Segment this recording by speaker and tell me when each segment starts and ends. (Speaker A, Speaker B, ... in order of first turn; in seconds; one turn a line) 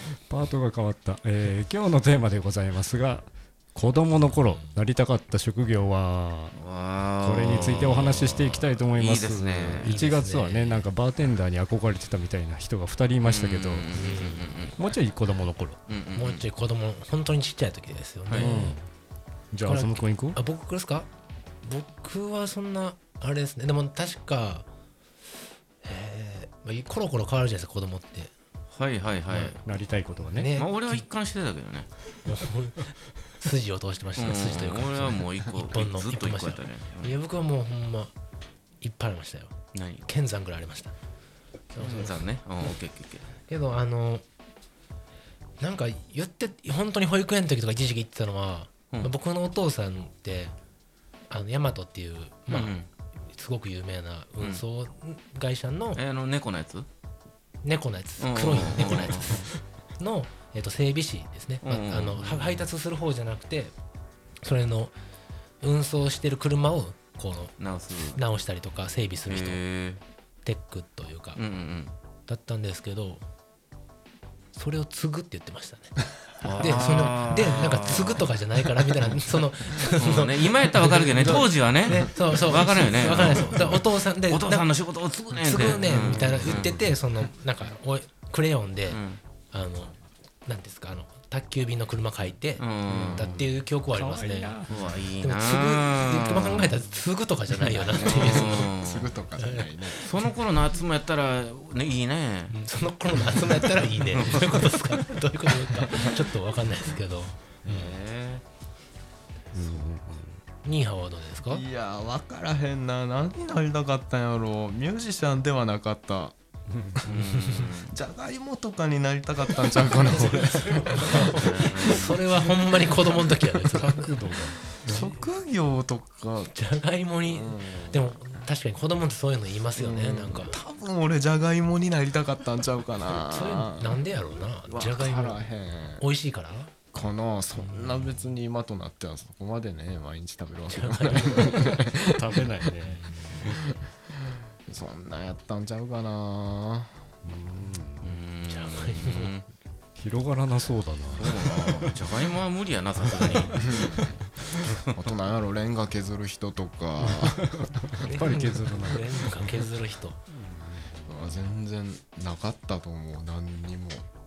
Speaker A: 0.3-6.6
Speaker B: 6.5-10.0
Speaker A: 7.2-13.9
Speaker C: 9.8-10.9
Speaker B: 13.2-14.8
Speaker C: 13.9-14.6
Speaker A: 14.8-15.8
Speaker B: 15.9-16.4
Speaker C: 16.1-18.8
Speaker B: 18.3-18.5
Speaker A: 18.4-18.8
Speaker A: 19.5-20.4
Speaker C: 19.6-21.1
Speaker C: 21.6-24.7
Speaker C: 25.8-28.3
Speaker B: 28.7-29.6
Speaker A: 29.6-30.5
Speaker C: 30.3-31.1
Speaker B: 30.6-31.9
Speaker C: 32.2-32.8
Speaker C: 33.4-38.1
Speaker B: 34.2-37.1
Speaker C: 38.8-39.5
Speaker B: 39.7-40.0
Speaker C: 40.1-41.0
Speaker C: 41.8-42.2
Speaker B: 41.8-43.3
Speaker C: 43.5-44.2
Speaker C: 45.6-50.5
Speaker C: 51.3-52.8
Speaker B: 52.5-52.9
Speaker C: 53.3-56.0
Speaker B: 56.0-56.9
Speaker C: 57.6-63.7
Speaker B: 58.2-59.4
Speaker B: 61.6-62.7
Speaker C: 64.4-64.9
Speaker C: 65.6-69.6
Speaker B: 67.6-68.2
Speaker B: 69.3-70.0
Speaker C: 70.4-71.4
Speaker B: 71.3-71.9
Speaker C: 72.3-73.2
Speaker C: 74.5-76.0
Speaker B: 76.4-78.3
Speaker C: 76.5-84.7
Speaker B: 79.8-86.8
Speaker C: 85.3-89.9
Speaker B: 88.9-89.2
Speaker C: 90.5-94.6
Speaker B: 92.6-93.3
Speaker D: 92.9-93.5
Speaker A: 93.4-94.9
Speaker B: 94.7-96.7
Speaker C: 95.2-98.7
Speaker D: 97.8-100.0
Speaker B: 97.9-99.2
Speaker C: 99.4-100.3
Speaker B: 100.0-102.5
Speaker C: 102.5-108.0
Speaker B: 104.1-104.6
Speaker B: 107.7-108.4
Speaker A: 109.5-110.4
Speaker C: 110.6-111.6
Speaker D: 111.5-116.3
Speaker A: 116.7-117.0
Speaker B: 117.0-117.9
Speaker C: 117.2-117.6
Speaker D: 117.6-122.2
Speaker C: 119.8-124.2
Speaker B: 121.2-122.2
Speaker A: 123.6-125.1
Speaker D: 124.8-126.5
Speaker C: 126.5-130.6
Speaker D: 127.2-128.1
Speaker D: 129.8-134.0
Speaker C: 133.2-135.5
Speaker D: 134.7-136.1
Speaker C: 136.0-136.7
Speaker D: 136.9-142.3
Speaker C: 137.7-138.1
Speaker C: 140.7-141.8
Speaker A: 142.0-143.5
Speaker C: 142.9-143.4
Speaker D: 143.4-143.8
Speaker D: 144.7-146.9
Speaker A: 147.2-148.2
Speaker B: 148.0-149.4
Speaker C: 148.4-149.3
Speaker A: 150.0-152.2
Speaker B: 151.2-153.6
Speaker A: 153.0-154.7
Speaker D: 153.5-154.1
Speaker D: 155.0-158.3
Speaker A: 157.0-159.6
Speaker C: 158.0-160.2
Speaker A: 160.3-161.5
Speaker D: 161.1-164.1